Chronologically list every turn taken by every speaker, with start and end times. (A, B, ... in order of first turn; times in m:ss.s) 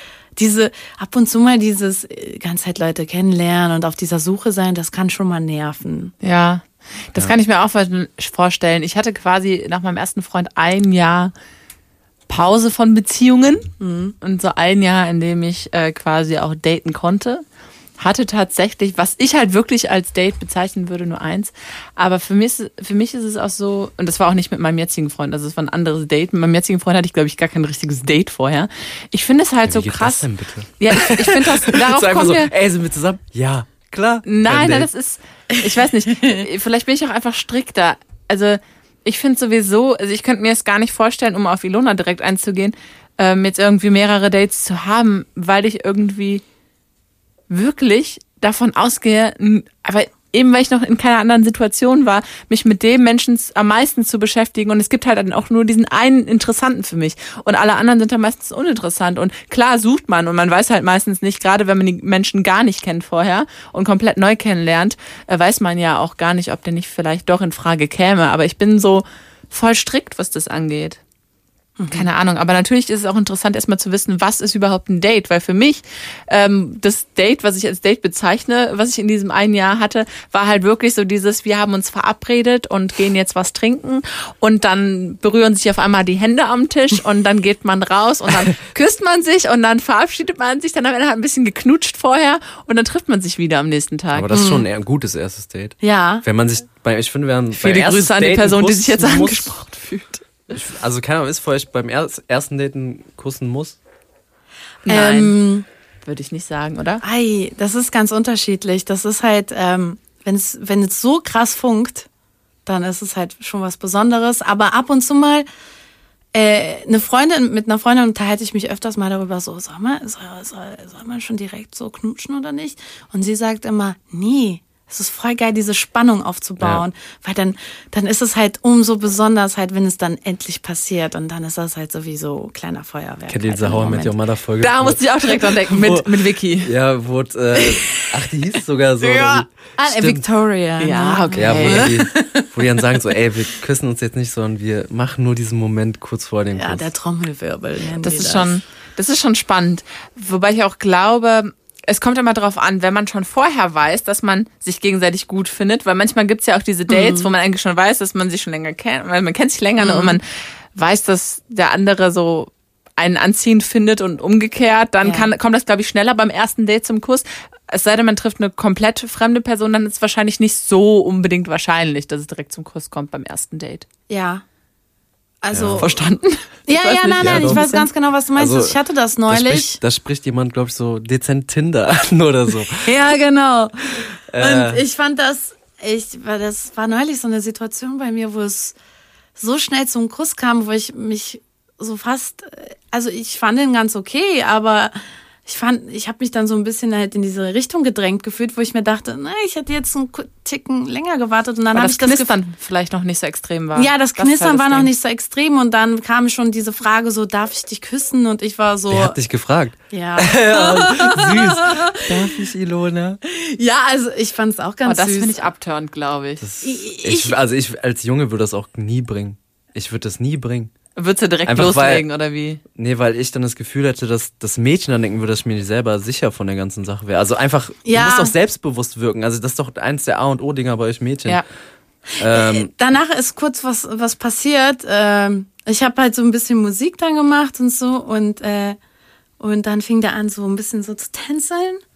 0:00.4-0:06.1 A
0:06.2-0:11.3 B
0:12.3-0:13.7 B
0:13.8-0:14.1 A
0:14.2-0:17.4 B
0:18.0-0:30.3 B
0:29.6-0:34.9 C
0:30.8-0:32.5 B
0:34.2-0:46.4 B
0:47.5-1:11.0 B
1:11.8-1:12.1 A
1:11.9-1:34.4 B
1:34.1-1:39.5 C
1:34.3-1:34.6 A
1:35.8-1:36.2 A
1:37.5-1:40.2 B
1:40.5-1:43.8 C
1:44.8-1:45.4 B
1:44.9-1:45.6 A
1:46.0-1:47.0 B
1:47.0-1:52.1 A
1:52.6-1:55.4 A
1:56.3-2:14.1 A
2:06.6-2:06.8 C
2:13.3-2:16.1 C
2:14.6-2:16.7 B
2:16.6-2:20.2 C
2:17.6-2:18.1 A
2:19.0-2:22.5 A
2:20.8-2:21.9 B
2:21.4-2:26.8 C
2:26.5-2:28.6 A
2:28.0-2:53.8 B
2:36.9-2:37.3 A
2:39.8-2:40.2 A
2:45.0-2:45.3 A
2:54.1-2:54.4 A
2:55.4-2:56.0 A
2:55.5-2:56.0 C
2:55.8-2:57.8 B
2:56.7-2:59.8 A
2:57.2-2:57.6 C
2:58.4-3:02.9 C
3:02.8-3:08.7 A
3:04.3-3:04.8 C
3:09.4-3:22.3 A
3:21.7-3:24.9 B
3:23.7-3:29.2 A
3:28.9-3:33.2 C
3:29.9-3:32.0 A
3:33.2-3:35.5 A
3:34.8-3:36.4 B
3:36.4-3:40.7 C
3:36.6-3:37.3 A
3:41.0-3:42.6 B
3:41.4-3:42.0 C
3:42.7-3:51.4 C
3:47.8-3:48.3 A
3:52.2-3:52.7 C
3:52.2-3:58.8 A
3:59.4-4:01.8 A